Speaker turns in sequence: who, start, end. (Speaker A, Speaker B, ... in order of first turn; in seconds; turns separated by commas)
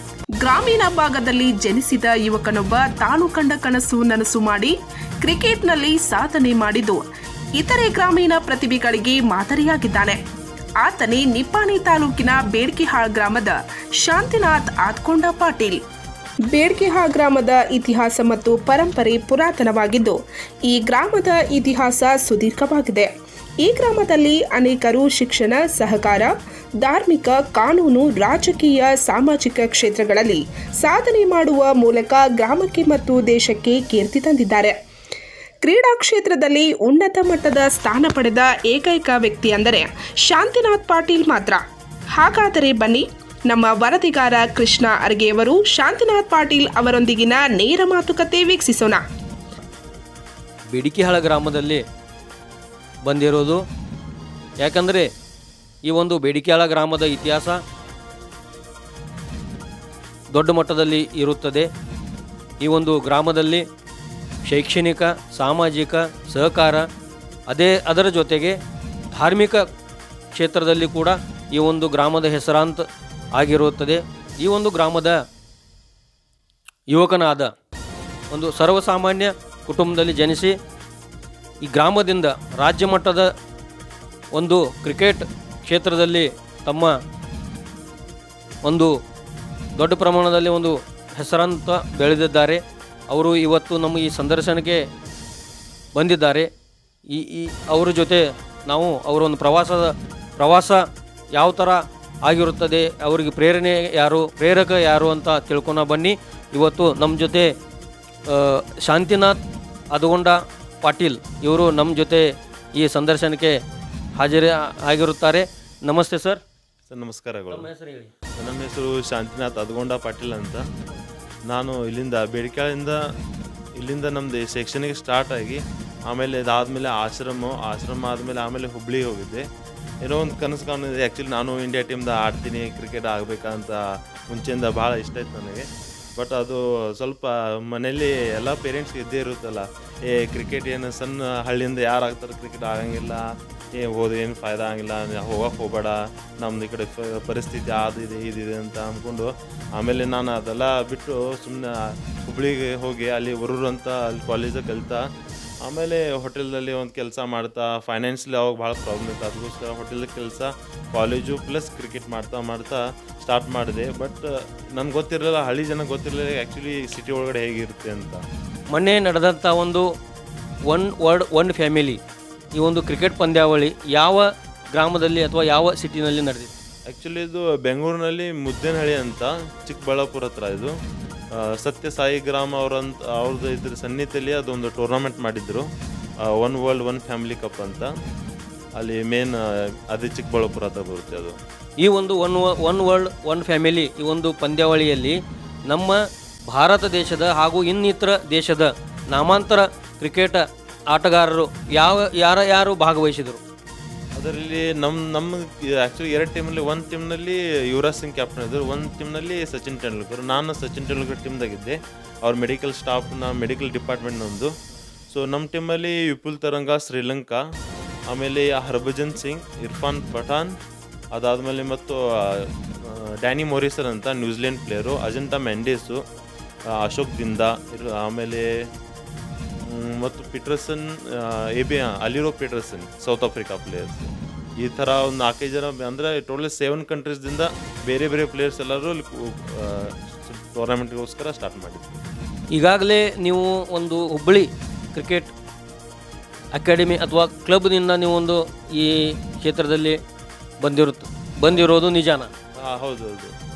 Speaker A: 0.4-7.0, Speaker A: 7.6-10.2, Speaker A: 10.8-15.8, Speaker A: 16.5-23.1, Speaker A: 23.6-26.3, Speaker A: 26.8-34.7, Speaker A: 35.6-41.6, Speaker A: 42.2-49.0, Speaker B: 50.7-51.8, Speaker B: 53.0-53.6, Speaker B: 54.6-55.1, Speaker B: 55.9-57.6, Speaker B: 60.3-61.7, Speaker B: 62.6-63.6, Speaker B: 64.4-66.8, Speaker B: 67.5-68.6, Speaker B: 69.1-69.6, Speaker B: 70.3-72.8, Speaker B: 73.3-75.2, Speaker B: 76.9-77.5, Speaker B: 78.3-80.5, Speaker B: 81.6-83.3, Speaker B: 84.3-86.9, Speaker B: 88.6-88.9, Speaker B: 89.8-94.8, Speaker B: 95.9-96.5, Speaker B: 97.1-107.5, Speaker B: 108.3-109.4, Speaker B: 109.9-112.2, Speaker B: 112.8-113.5, Speaker B: 114.2-116.4, Speaker C: 116.9-117.7, Speaker B: 117.5-118.1, Speaker C: 118.4-120.7, Speaker C: 121.5-123.0, Speaker C: 123.8-129.4, Speaker C: 130.0-155.1, Speaker C: 155.6-168.2, Speaker B: 168.7-169.8, Speaker B: 170.7-172.0, Speaker B: 172.6-176.5, Speaker C: 176.9-180.7, Speaker C: 181.3-185.7, Speaker C: 186.2-187.9, Speaker C: 188.8-191.3, Speaker B: 191.8-195.2, Speaker B: 195.7-203.4, Speaker C: 204.2-214.5, Speaker C: 215.1-217.4, Speaker C: 218.1-220.6, Speaker C: 221.1-226.0, Speaker C: 226.7-228.5, Speaker C: 229.6-242.0, Speaker B: 242.5-245.3, Speaker B: 246.5-249.9, Speaker B: 250.6-252.3, Speaker C: 252.6-253.3